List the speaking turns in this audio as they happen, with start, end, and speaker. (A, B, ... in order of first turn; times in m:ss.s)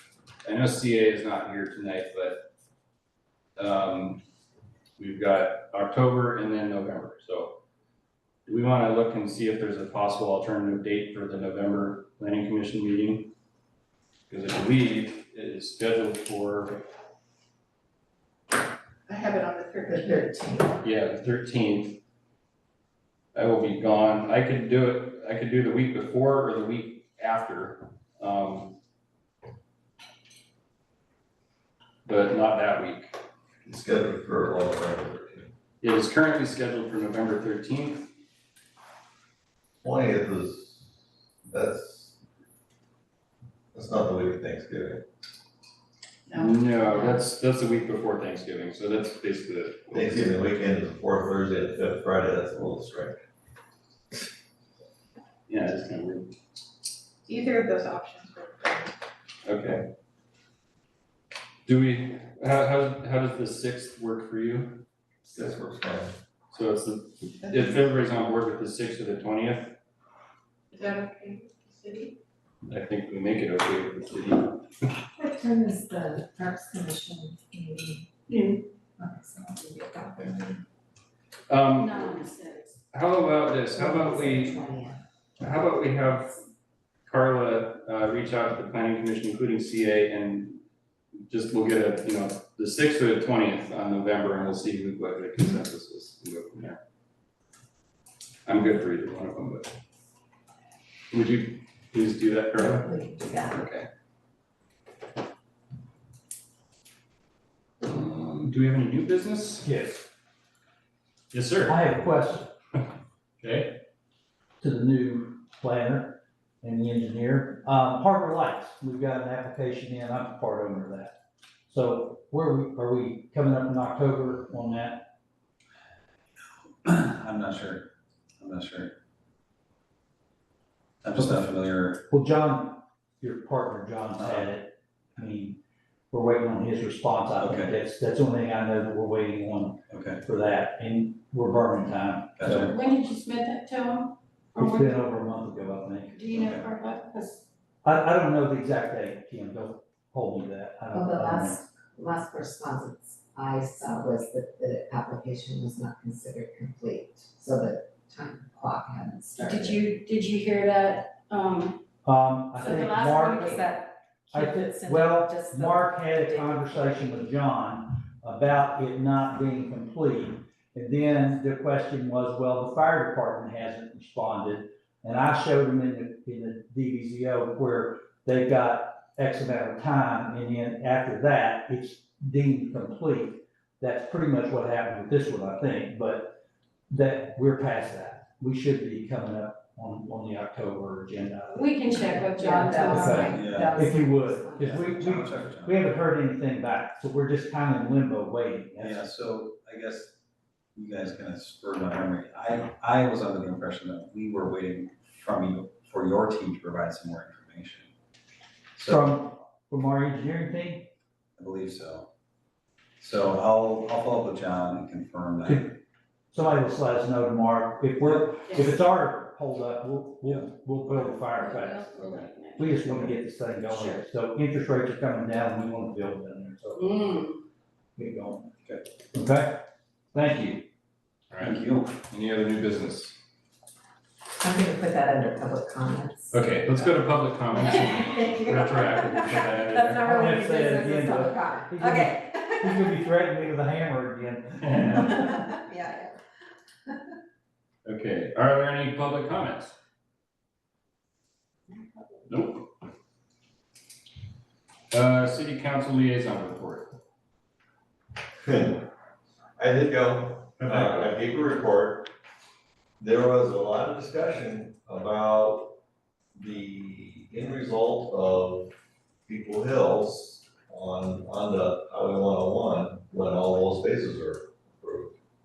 0:00.4-0:02.4 A
0:03.6-0:04.2 A
0:05.0-0:07.6 A
0:08.5-0:13.3 A
0:14.3-0:16.8 A
0:19.1-0:20.5 B
0:19.9-0:20.8 C
0:20.8-0:22.0 A
0:23.3-0:28.8 A
0:32.0-0:33.2 A
0:33.6-0:35.5 D
0:35.8-0:38.1 A
0:39.8-0:40.9 D
0:41.5-0:42.2 D
0:43.7-0:45.0 D
0:46.3-0:47.2 B
0:46.3-0:50.4 A
0:49.9-0:53.2 D
0:55.5-0:56.3 A
0:57.3-0:59.0 B
0:59.5-0:59.8 A
1:01.7-1:04.8 A
1:05.3-1:06.1 D
1:06.5-1:09.8 A
1:07.4-1:07.9 B
1:10.7-1:12.2 B
1:12.7-1:14.6 A
1:15.2-1:18.1 C
1:18.3-1:18.6 B
1:19.0-1:20.6 C
1:21.5-1:22.1 A
1:21.8-1:22.8 E
1:22.9-1:24.6 A
1:23.8-1:25.0 C
1:25.4-1:26.4 A
1:27.1-1:30.6 A
1:31.3-1:36.8 A
1:38.5-1:39.7 A
1:41.1-1:42.9 A
1:42.6-1:43.6 C
1:43.4-1:43.9 A
1:47.8-1:49.7 A
1:49.6-1:50.0 F
1:51.3-1:51.8 A
1:51.7-1:52.5 F
1:53.4-1:53.8 A
1:54.6-2:01.2 F
2:01.7-2:05.0 F
2:06.7-2:07.9 G
2:08.4-2:08.9 G
2:11.0-2:12.0 G
2:12.1-2:15.6 F
2:14.2-2:14.5 G
2:16.1-2:22.7 F
2:17.4-2:17.7 G
2:19.9-2:20.2 G
2:22.4-2:22.7 G
2:22.6-2:24.9 E
2:24.6-2:26.2 F
2:26.1-2:27.4 E
2:26.4-2:26.7 G
2:27.8-2:31.6 F
2:30.9-2:39.8 C
2:39.4-2:41.8 E
2:42.0-2:43.8 F
2:42.6-2:46.7 E
2:44.3-3:06.4 F
3:06.9-3:19.1 F
3:11.5-3:13.5 E
3:12.4-3:14.8 C
3:13.2-3:13.8 G
3:14.6-3:15.8 G
3:18.8-3:20.2 G
3:20.8-3:27.9 G
3:28.8-3:29.1 G
3:28.8-3:30.9 F
3:31.4-3:32.1 G
3:33.0-3:35.7 G
3:35.4-3:35.8 F
3:36.3-3:46.9 F
3:40.3-3:41.2 G
3:41.3-3:43.1 E
3:43.7-3:44.0 E
3:46.8-3:47.4 E
3:48.0-3:48.5 F
3:49.1-3:50.7 F
3:51.3-3:53.2 A
3:51.4-3:52.0 G
3:54.4-3:56.3 C
3:56.3-4:00.1 A
3:57.6-4:03.0 C
4:00.0-4:05.5 F
4:04.6-4:05.0 A
4:05.0-4:06.2 C
4:07.8-4:09.8 A
4:11.7-4:12.2 C
4:12.3-4:12.7 A
4:14.9-4:17.0 A
4:18.4-4:18.8 D
4:19.6-4:22.1 D
4:20.6-4:21.2 A
4:23.0-4:25.8 D
4:26.4-4:28.7 D
4:29.3-4:35.1 D